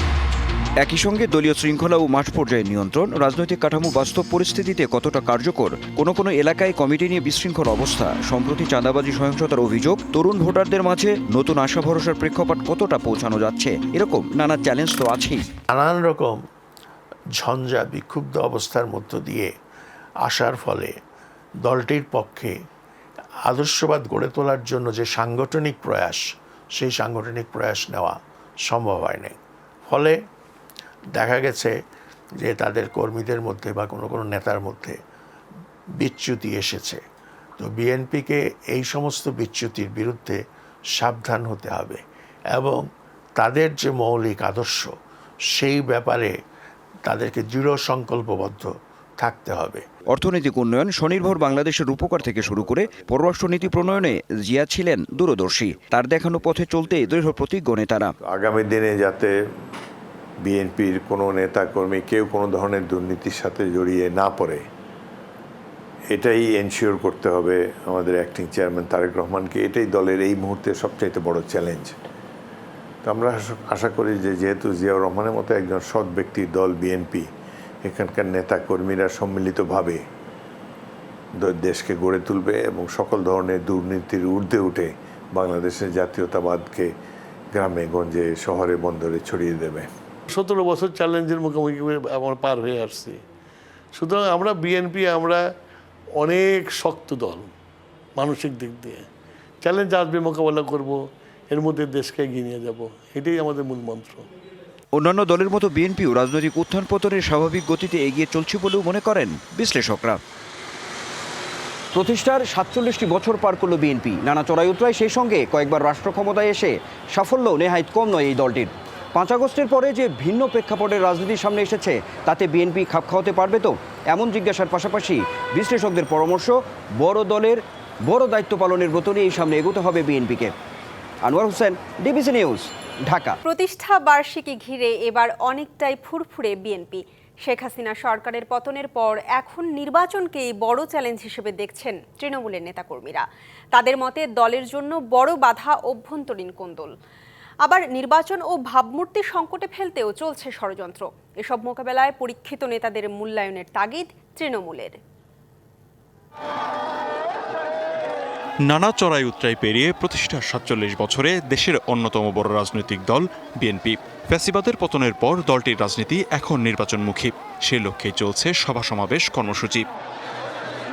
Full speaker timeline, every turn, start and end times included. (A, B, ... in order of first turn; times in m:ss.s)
0:00.8-0:15.4 A
0:15.7-0:16.4 B
0:17.4-0:19.5 B
0:20.2-0:20.9 B
0:21.6-0:22.5 B
0:23.5-0:29.4 B
0:29.9-0:30.2 B
0:31.1-0:31.7 B
0:32.4-0:34.9 B
0:36.0-0:37.0 B
0:37.6-0:40.4 B
0:40.9-0:42.0 B
0:42.5-0:42.8 B
0:43.4-0:44.9 B
0:45.5-0:46.3 B
0:47.0-0:49.8 B
0:50.1-0:58.1 A
0:58.3-0:59.3 C
1:00.4-1:04.6 C
1:06.1-1:12.0 C
1:13.0-1:17.3 C
1:17.8-1:20.0 C
1:21.4-1:26.9 C
1:27.5-1:29.9 C
1:30.3-1:33.2 D
1:33.9-1:35.5 D
1:36.2-1:37.5 D
1:38.2-1:39.1 D
1:39.6-1:44.3 D
1:44.9-1:50.2 A
1:51.9-2:10.5 A
2:11.2-2:13.4 A
2:13.4-2:26.9 E
2:27.6-2:35.0 E
2:38.7-2:49.8 F